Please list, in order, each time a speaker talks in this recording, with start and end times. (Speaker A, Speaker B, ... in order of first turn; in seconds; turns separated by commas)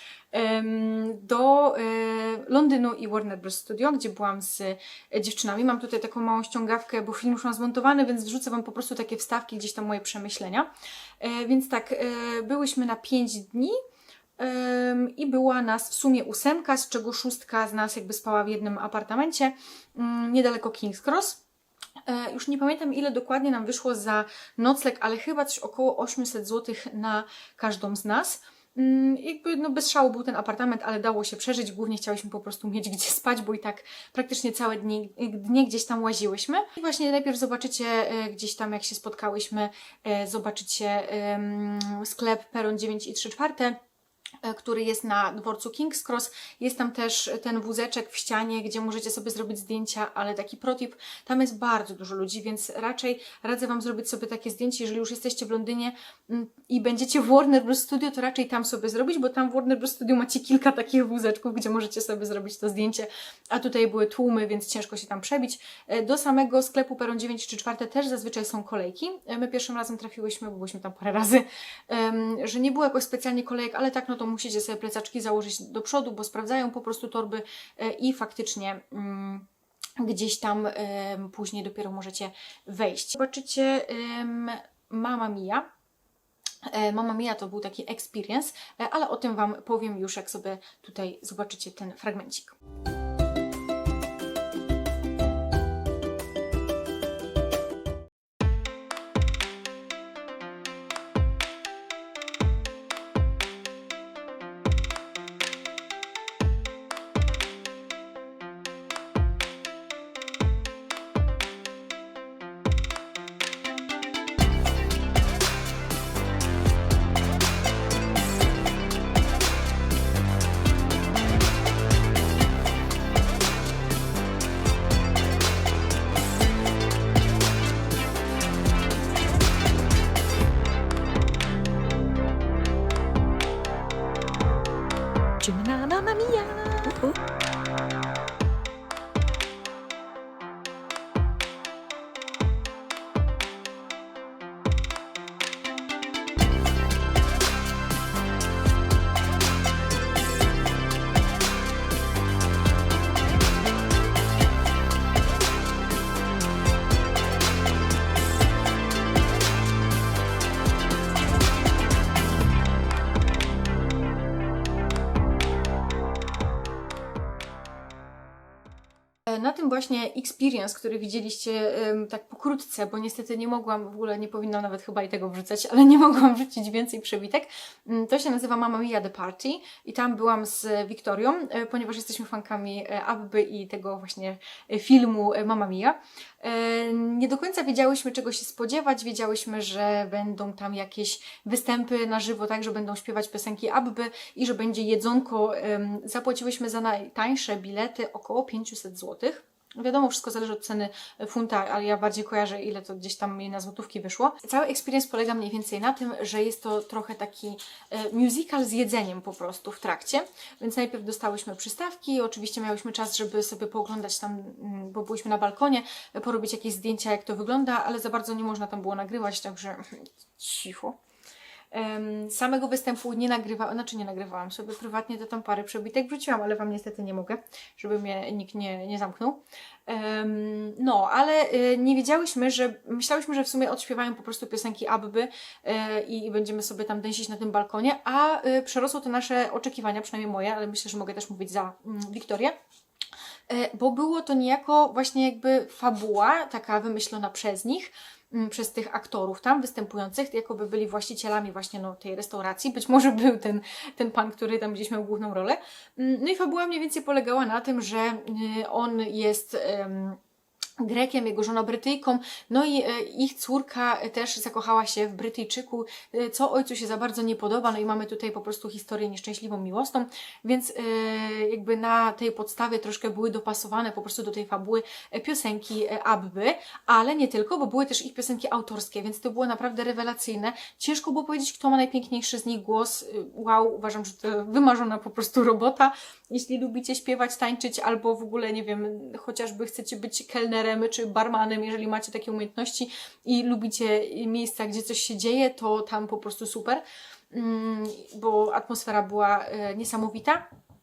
Speaker A: 0.3-10.7, Speaker A: 11.2-13.8, Speaker A: 14.4-21.4, Speaker A: 22.1-43.8, Speaker A: 44.4-79.5, Speaker A: 80.0-85.7, Speaker A: 86.7-92.5, Speaker A: 135.4-137.1, Speaker A: 169.3-221.0, Speaker A: 221.7-242.5, Speaker A: 243.5-260.2, Speaker A: 260.8-300.5